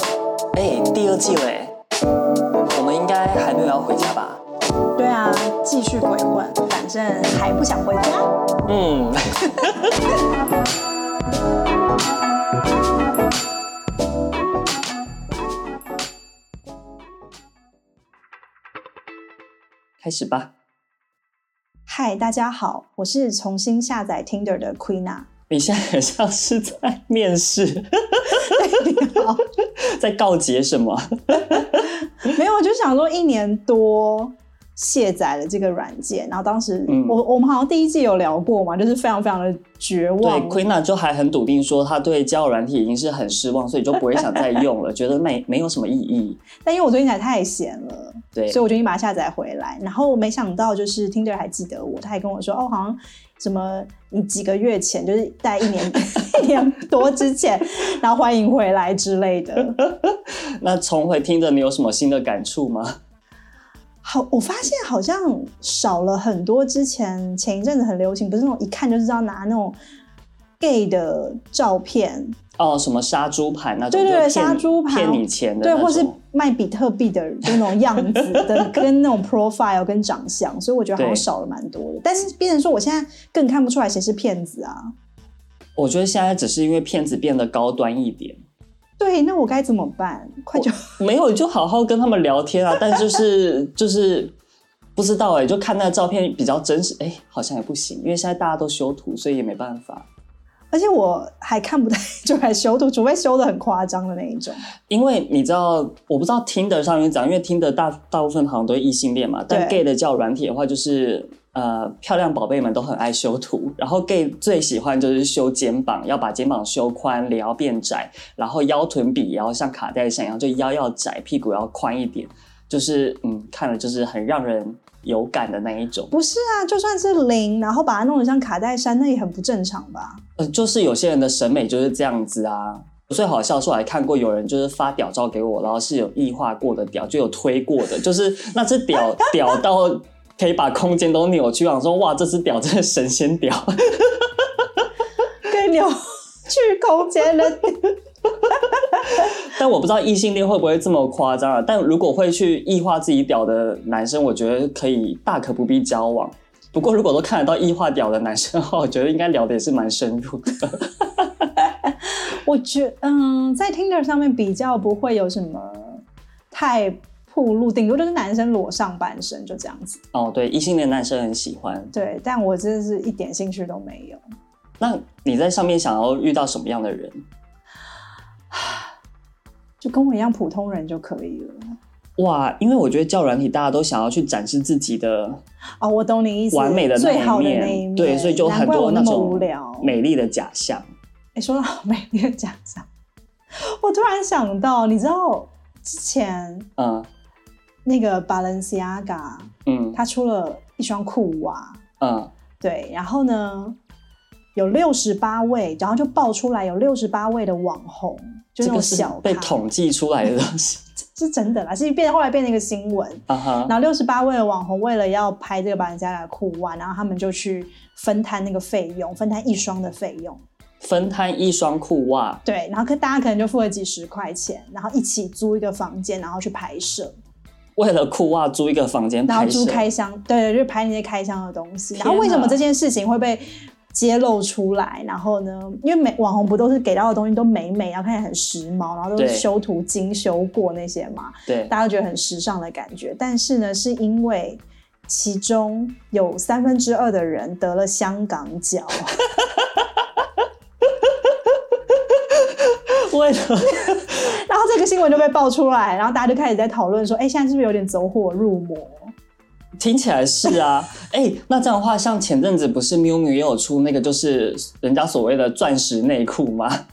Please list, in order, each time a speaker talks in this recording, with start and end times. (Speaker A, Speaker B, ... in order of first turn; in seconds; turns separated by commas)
Speaker A: 0.5-1.8, Speaker A: 2.7-4.4, Speaker B: 5.0-8.3, Speaker A: 8.6-10.0, Speaker A: 20.0-20.5, Speaker B: 21.9-25.3, Speaker A: 25.5-29.1, Speaker B: 28.3-29.4, Speaker A: 29.8-32.0, Speaker B: 32.3-40.6, Speaker A: 36.9-37.2, Speaker A: 40.2-46.4, Speaker B: 46.6-59.8, Speaker A: 59.8-63.0, Speaker B: 64.0-69.8, Speaker B: 70.6-72.3, Speaker A: 72.6-76.2, Speaker B: 73.9-84.9, Speaker A: 81.0-81.2, Speaker A: 85.8-88.4, Speaker B: 89.0-90.8, Speaker A: 90.5-94.3, Speaker A: 95.0-100.1, Speaker B: 100.7-104.6, Speaker A: 104.9-126.1, Speaker B: 109.5-109.8, Speaker B: 126.1-130.2, Speaker A: 130.4-144.8, Speaker B: 145.4-147.8, Speaker A: 149.0-161.5, Speaker B: 161.8-170.0, Speaker A: 170.1-171.9, Speaker B: 171.9-174.2, Speaker A: 174.8-177.2, Speaker B: 179.8-181.7, Speaker A: 182.2-185.4, Speaker B: 185.8-189.9, Speaker A: 186.5-190.8, Speaker B: 191.3-192.8, Speaker B: 193.6-196.7, Speaker A: 196.8-197.1, Speaker B: 197.8-201.8, Speaker A: 199.7-200.0, Speaker A: 202.0-202.3, Speaker B: 202.6-203.8, Speaker B: 204.6-209.6, Speaker A: 208.6-210.9, Speaker B: 211.1-220.4, Speaker A: 213.3-213.7, Speaker A: 220.8-222.4, Speaker B: 222.4-227.1, Speaker A: 227.8-229.8, Speaker B: 229.3-249.2, Speaker A: 232.0-232.6, Speaker A: 239.2-239.4, Speaker A: 249.3-250.2, Speaker A: 251.0-254.4, Speaker B: 253.8-259.1, Speaker A: 259.8-266.8